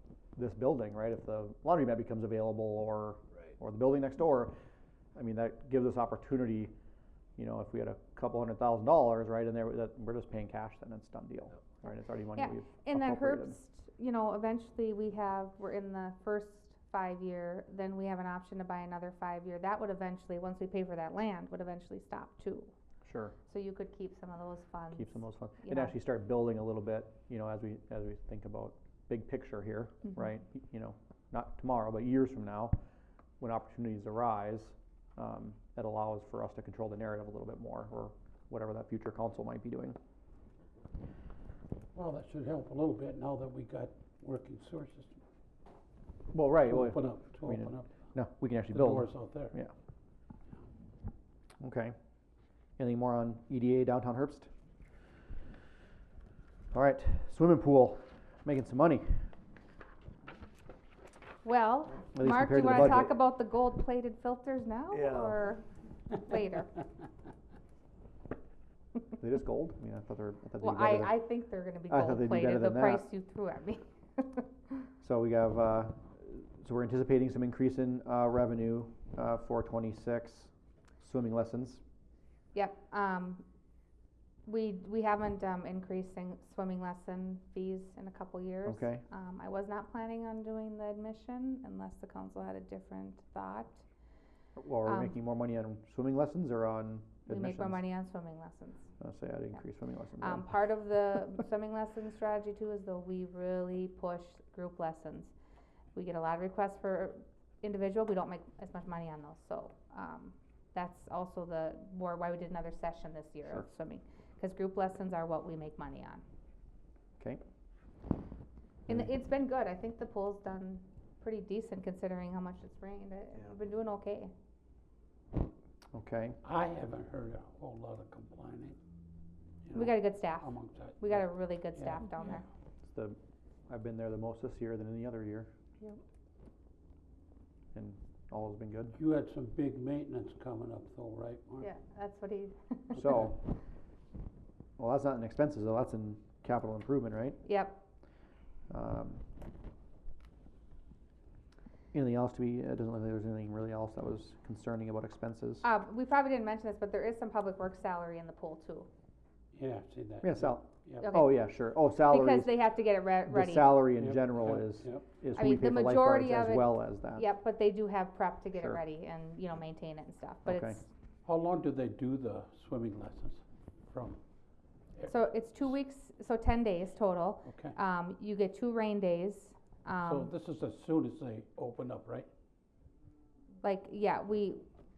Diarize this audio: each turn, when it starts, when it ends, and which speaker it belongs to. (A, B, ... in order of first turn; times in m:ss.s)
0:00.4-0:04.6 A
0:05.2-0:06.7 A
0:07.4-0:13.6 A
0:12.4-0:22.7 B
0:23.0-0:23.4 A
0:23.5-0:26.0 B
0:24.9-0:32.8 A
0:33.4-0:40.0 A
0:42.0-0:45.2 C
0:46.3-0:49.7 A
0:46.6-0:47.9 C
0:48.7-0:49.6 C
0:51.6-0:52.0 A
0:52.8-0:54.5 A
0:56.7-0:59.3 A
1:01.4-1:06.8 B
1:02.1-1:03.2 A
1:09.2-1:11.2 A
1:10.6-1:14.9 B
1:11.9-1:13.1 A
1:15.0-1:21.8 A
1:22.5-1:23.4 B
1:24.5-1:33.8 B
1:28.6-1:29.0 A
1:34.6-1:37.9 A
1:34.8-1:35.2 B
1:37.3-1:38.9 B
1:39.0-1:40.6 A
1:40.2-1:45.3 B
1:46.0-1:56.2 B
1:58.9-2:04.3 B
2:05.9-2:06.4 A
2:06.4-2:08.8 C
2:09.7-2:11.2 C
2:09.7-2:12.4 B
2:11.8-2:12.4 C
2:12.9-2:13.2 A
2:13.7-2:15.5 A
2:17.7-2:19.0 A
2:18.9-2:21.7 C
2:21.6-2:23.0 B
2:22.9-2:23.4 A
2:24.8-2:27.4 A
2:27.4-2:27.8 B
2:28.7-2:29.2 A
2:31.9-2:35.7 A
2:35.6-2:38.9 B
2:39.5-2:41.1 C
2:40.2-2:42.7 A
2:41.0-2:43.9 B
2:43.3-2:47.3 A
2:44.0-2:45.2 C
2:45.4-2:50.9 B
2:48.6-2:48.8 A
2:50.4-2:50.8 A
2:51.2-2:54.2 C
2:55.1-3:00.3 B
2:57.5-2:57.7 C
3:00.0-3:02.3 C
3:03.6-3:04.6 B